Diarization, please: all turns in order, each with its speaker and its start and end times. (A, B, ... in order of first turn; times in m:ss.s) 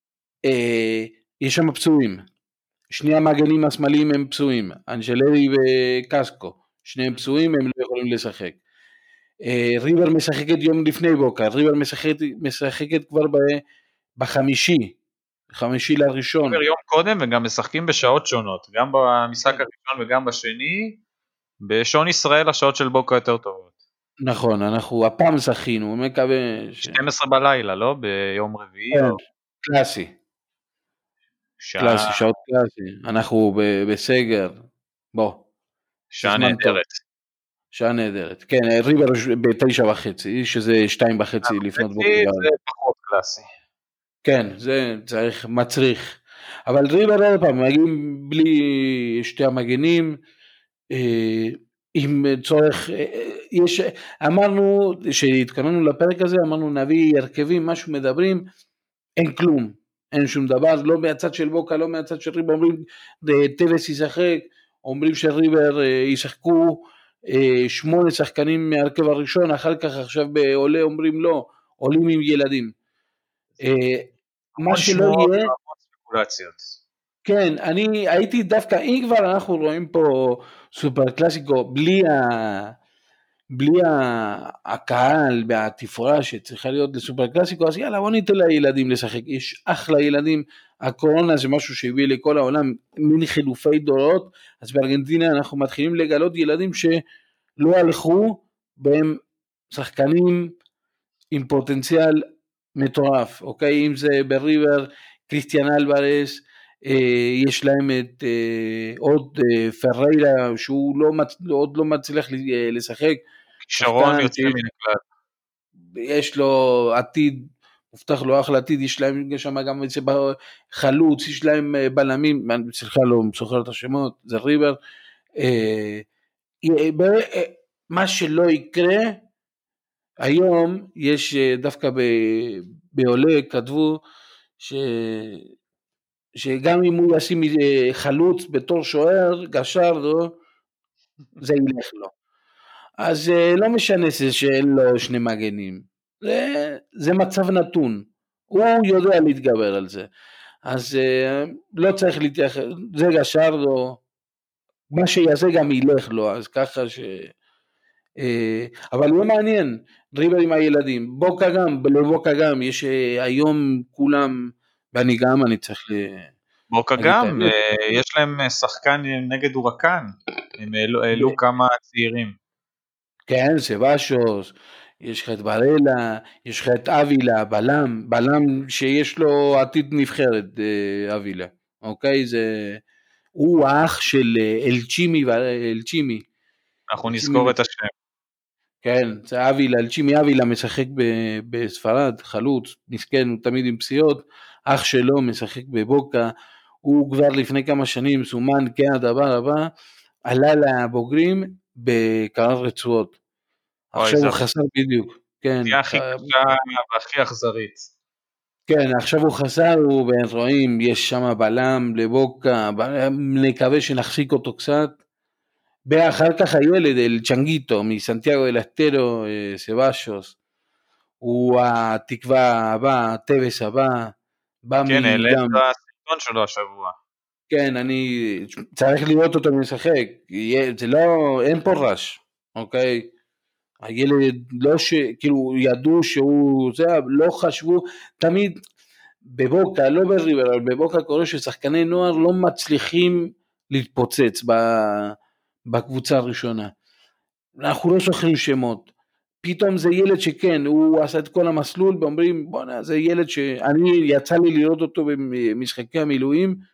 0:00.5-0:02.2 A
0:02.9-0:08.6 A
0:09.4-0:13.6 A
0:14.2-0:15.0 A
0:15.5-0:16.6 A
0:16.5-0:21.0 B
0:21.6-0:23.7 B
0:24.2-0:27.0 A
0:26.8-0:29.2 B
0:28.9-0:30.1 A
0:31.6-0:32.2 B
0:31.8-0:34.6 A
0:35.1-0:35.4 A
0:36.1-0:37.0 B
0:36.2-0:36.8 A
0:37.7-0:42.5 A
0:41.4-0:43.5 B
0:44.2-0:50.2 A
0:50.9-0:58.4 A
0:59.2-1:12.7 A
1:13.6-1:15.5 A
1:14.7-1:16.7 B
1:17.2-1:22.7 A
1:23.6-1:37.0 A
1:37.6-1:39.2 A
1:39.7-1:40.5 A
1:41.3-1:42.2 A
1:42.8-1:53.2 A
1:53.6-1:55.0 B
1:53.8-1:54.6 A
1:56.0-2:04.8 A
2:05.4-2:06.0 A
2:06.6-2:09.2 A
2:10.2-2:14.0 A
2:14.6-2:15.5 A
2:16.4-2:20.4 A
2:21.4-2:22.1 A
2:23.0-2:30.1 A
2:30.7-2:34.0 A
2:34.9-2:37.3 A
2:38.2-2:44.3 A
2:44.9-2:46.3 A
2:46.7-2:52.4 B
2:47.0-2:47.6 A
2:53.3-3:02.8 A
3:03.4-3:06.2 A
3:06.9-3:07.9 B
3:07.1-3:07.5 A
3:08.8-3:16.3 A
3:16.8-3:19.6 A
3:20.3-3:23.2 A
3:23.9-3:26.3 A
3:24.0-3:24.4 B
3:25.7-3:27.9 B
3:28.7-3:35.0 A
3:35.9-3:40.4 A
3:41.2-3:44.2 A
3:44.7-3:45.6 A
3:44.9-3:47.0 B
3:47.5-3:53.1 A
3:53.8-3:58.6 A
3:59.3-4:05.2 A
4:05.7-4:06.7 A
4:07.6-4:08.9 A
4:09.4-4:16.6 A